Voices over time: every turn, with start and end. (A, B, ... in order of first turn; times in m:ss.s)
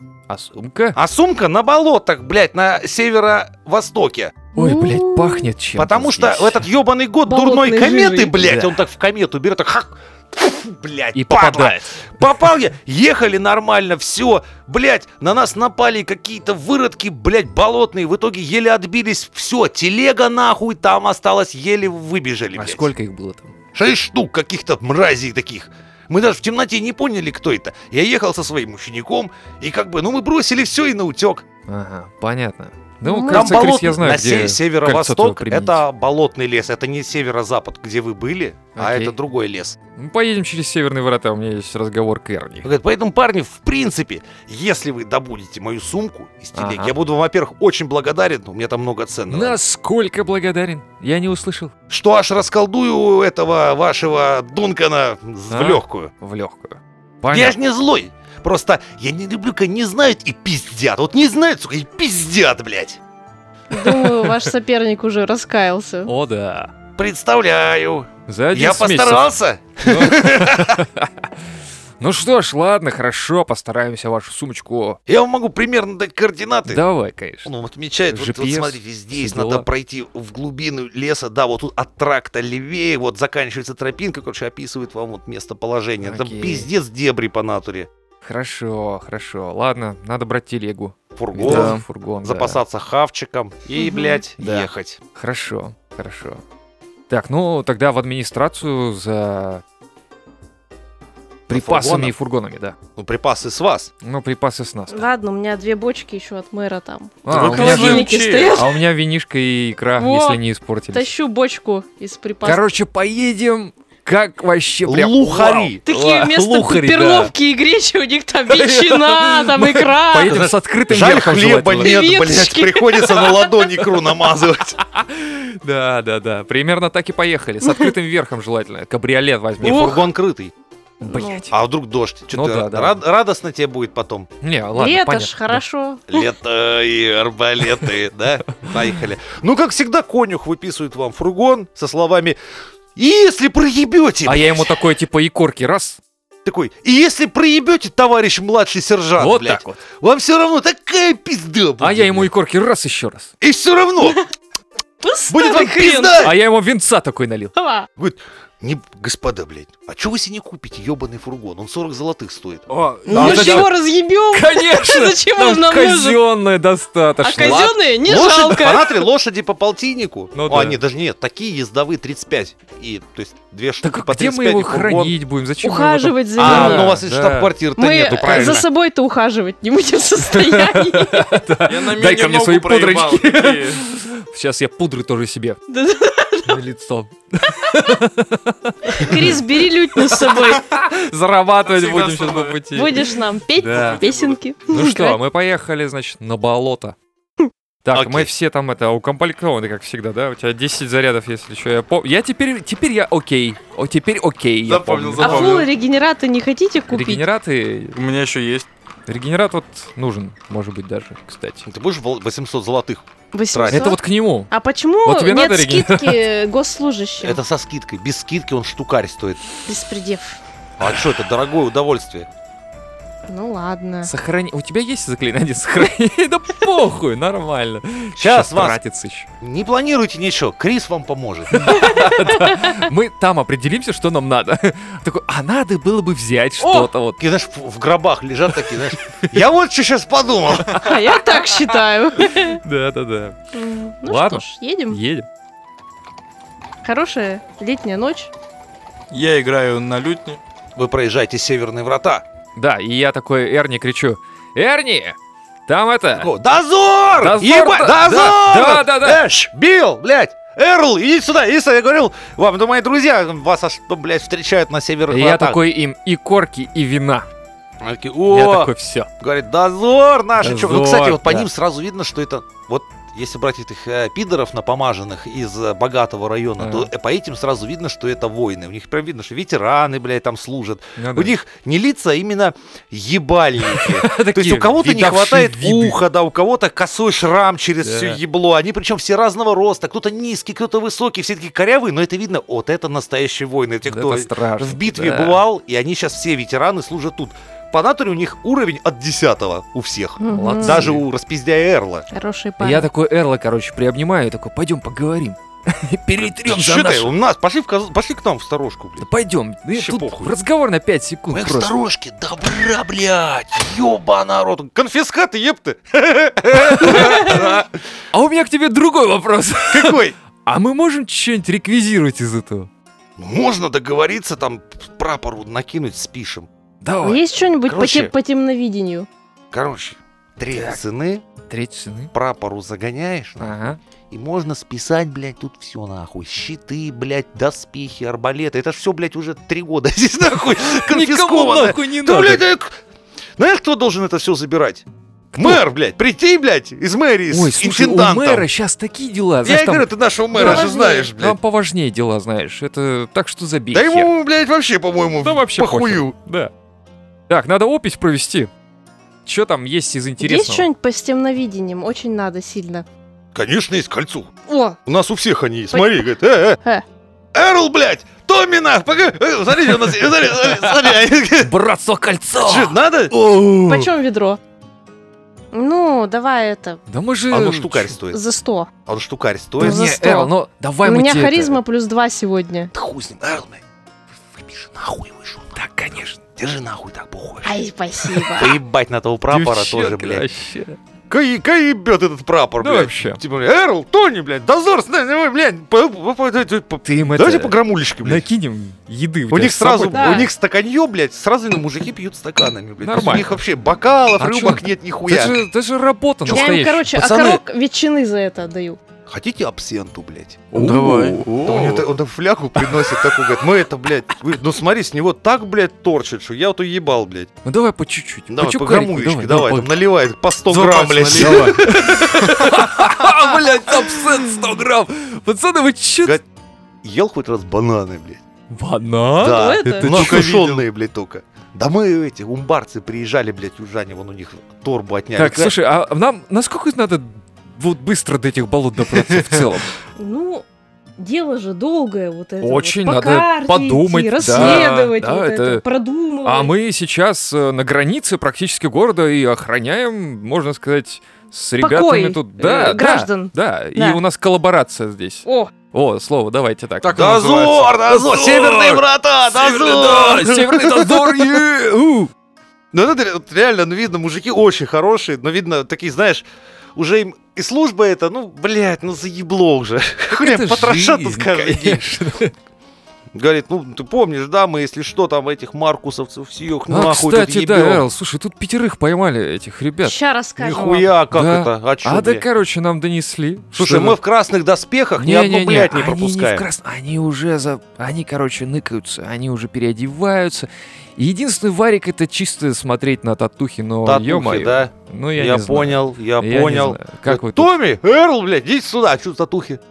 0:00.3-0:01.0 A
0:01.0-0:04.4 B
0:04.5-0:05.5 C
0:04.6-0:06.7 A
0:05.8-0:22.9 B
0:07.3-0:08.4 C
0:08.4-0:08.8 A
0:11.2-0:12.2 A
0:22.6-0:23.5 A
0:23.7-0:31.4 B
0:31.7-0:35.8 A
0:33.0-0:33.6 C
0:33.3-0:39.8 B
0:38.8-0:39.2 A
0:40.0-0:42.7 A
0:42.6-0:49.6 B
0:46.6-0:46.9 A
0:49.3-0:51.7 A
0:51.9-0:56.1 B
0:55.5-0:57.6 A
0:57.3-1:03.0 B
1:03.7-1:06.1 C
1:06.0-1:06.7 A
1:07.0-1:10.8 B
1:08.3-1:11.3 A
1:12.0-1:15.0 A
1:15.1-1:16.8 B
1:16.7-1:17.5 A
1:17.4-1:27.9 B
1:18.1-1:19.7 A
1:26.0-1:26.7 A
1:28.2-1:32.6 A
1:31.2-1:35.0 B
1:31.5-1:31.8 D
1:33.8-1:34.2 C
1:34.4-1:36.4 A
1:37.1-1:39.6 A
1:41.5-1:42.2 B
1:41.5-1:42.8 A
1:43.0-1:43.9 B
1:44.0-1:45.1 A
1:44.9-1:48.8 C
1:47.2-1:51.1 A
1:47.3-1:48.6 D
1:50.0-1:52.6 C
1:52.4-1:57.3 A
1:54.9-1:55.8 B
1:55.9-2:00.4 C
1:58.5-2:02.0 A
2:00.3-2:04.8 B
2:01.8-2:03.6 C
2:04.8-2:10.1 A
2:09.6-2:10.5 B
2:11.0-2:11.5 A
2:11.0-2:11.5 C
2:11.5-2:14.3 B
2:12.3-2:13.0 A
2:14.4-2:15.6 A
2:14.7-2:16.2 C
2:16.1-2:22.4 B
2:18.6-2:18.9 A
2:23.0-2:24.7 B
2:24.2-2:26.0 A
2:26.4-2:32.3 B
2:29.2-2:29.8 A
2:31.8-2:33.3 A
2:33.4-2:34.2 B
2:35.0-2:36.2 C
2:35.3-2:36.4 B
2:36.2-2:37.5 A
2:37.6-2:37.9 C
2:38.0-2:43.7 B
2:42.7-2:43.6 D
2:43.1-2:43.7 A
2:43.1-2:46.2 C
2:44.3-2:47.8 A
2:47.2-2:49.1 C
2:47.4-2:55.2 B
2:50.4-2:50.8 A
2:53.8-2:57.6 A
2:55.6-2:57.0 C
2:56.4-2:58.7 B
2:57.8-3:01.4 C
2:58.2-2:58.7 A
3:00.2-3:05.6 A
3:01.7-3:03.8 D
3:05.7-3:06.6 C
3:06.4-3:13.0 A
3:08.9-3:10.7 C
3:11.7-3:12.6 D
3:12.7-3:15.2 C
3:13.6-3:14.0 A
3:13.7-3:14.4 D
3:14.7-3:17.0 A
3:17.8-3:25.7 A
3:17.9-3:18.3 B
3:24.7-3:25.7 D
3:25.2-3:27.2 C
3:26.9-3:28.0 A
3:27.9-3:28.7 D
3:29.1-3:31.7 A
3:31.7-3:33.9 B
3:33.3-3:37.4 C
3:33.7-3:34.5 A
3:35.0-3:36.2 A
3:37.2-3:39.4 B
3:39.6-3:40.4 C
3:40.8-3:42.3 B
3:43.3-3:44.1 C
3:44.0-3:49.3 A
3:48.2-3:48.8 B
3:49.4-3:51.7 B
3:51.5-3:57.2 A
3:51.7-3:52.8 C
3:57.2-4:00.8 B
3:58.5-3:59.4 A
4:00.7-4:02.6 C
4:00.7-4:03.4 A
4:03.5-4:05.0 C
4:04.1-4:05.3 A
4:06.8-4:08.3 C
4:09.1-4:10.4 D
4:10.8-4:12.2 B
4:12.6-4:16.3 A
4:16.2-4:25.6 B
4:17.2-4:19.2 A
4:25.1-4:27.3 A
4:27.8-5:02.1 B
4:28.3-4:29.1 A
4:30.4-4:31.5 A
4:36.6-4:36.9 A
4:41.0-4:41.3 A
4:43.6-4:46.0 A
4:47.8-4:48.2 A
4:53.9-4:55.4 A
5:00.2-5:00.9 C
5:00.3-5:01.0 A
5:02.1-5:02.9 C
5:02.6-5:07.1 A
5:06.2-5:09.1 B
5:09.0-5:11.7 A
5:09.7-5:10.4 B
5:11.3-5:17.7 B
5:16.5-5:22.7 A
5:19.7-5:20.2 B
5:23.2-5:26.5 B
5:26.8-5:27.2 A
5:27.0-5:29.1 C
5:27.7-5:28.1 B
5:29.5-5:31.2 B
5:30.5-5:30.8 A
5:31.5-5:32.1 A
5:32.1-5:33.6 B
5:33.4-5:33.8 A
5:34.1-5:42.8 B
5:40.4-5:42.4 A
5:43.4-5:44.8 B
5:45.3-5:45.6 A
5:45.4-5:48.5 B
5:47.3-5:54.1 A
5:49.4-5:51.4 B
5:50.4-5:51.1 C
5:53.7-5:56.2 B
5:55.2-5:56.5 A
5:57.3-5:58.5 A
5:59.2-6:00.7 A
6:00.2-6:02.9 C
6:03.4-6:04.3 B
6:04.5-6:04.8 C
6:04.9-6:06.6 B
6:05.7-6:06.1 C
6:07.3-6:11.5 B
6:09.9-6:13.2 A
6:12.4-6:13.8 B
6:13.6-6:14.4 C
6:15.5-6:16.8 C
6:16.9-6:18.0 A
6:17.3-6:18.2 B
6:18.1-6:18.7 C
6:18.9-6:19.8 B
6:19.6-6:20.3 C
6:19.6-6:21.6 A
6:20.8-6:22.7 C
6:22.7-6:23.6 B
6:24.3-6:25.6 B
6:25.6-6:26.2 A
6:26.3-6:27.7 B
6:27.4-6:28.6 C
6:28.3-6:30.3 B
6:29.3-6:30.8 A
6:31.1-6:38.3 B
6:32.6-6:33.2 A
6:36.8-6:40.3 A
6:39.3-6:45.4 B
6:39.9-6:40.3 C
6:42.8-6:43.4 A
6:44.2-6:46.9 A
6:46.3-6:47.4 B
6:46.3-6:48.8 C
6:49.1-6:50.5 B
6:50.5-6:51.8 A
6:50.5-6:51.8 D
6:51.4-6:57.3 B
6:52.6-6:53.3 A
6:57.4-6:59.7 A
6:58.3-7:03.4 B
7:00.5-7:01.7 D
7:01.1-7:06.2 A
7:06.8-7:08.2 B
7:08.5-7:10.4 A
7:09.2-7:15.6 B
7:09.3-7:09.9 C
7:09.9-7:10.6 D
7:15.2-7:19.8 A
7:20.0-7:20.4 C
7:21.0-7:26.5 C
7:22.4-7:25.6 A
7:26.2-7:42.1 A
7:31.6-7:34.0 C
7:35.3-7:35.5 C
7:36.8-7:37.8 D
7:37.0-7:41.3 B
7:42.7-7:46.2 B
7:46.8-7:51.9 B
7:50.1-7:52.3 A
7:53.1-7:57.8 B
7:56.7-8:00.0 A
7:59.8-8:00.9 C
8:00.4-8:02.2 B
8:01.1-8:04.0 A
8:03.5-8:06.4 B
8:05.0-8:17.5 A
8:13.8-8:19.6 B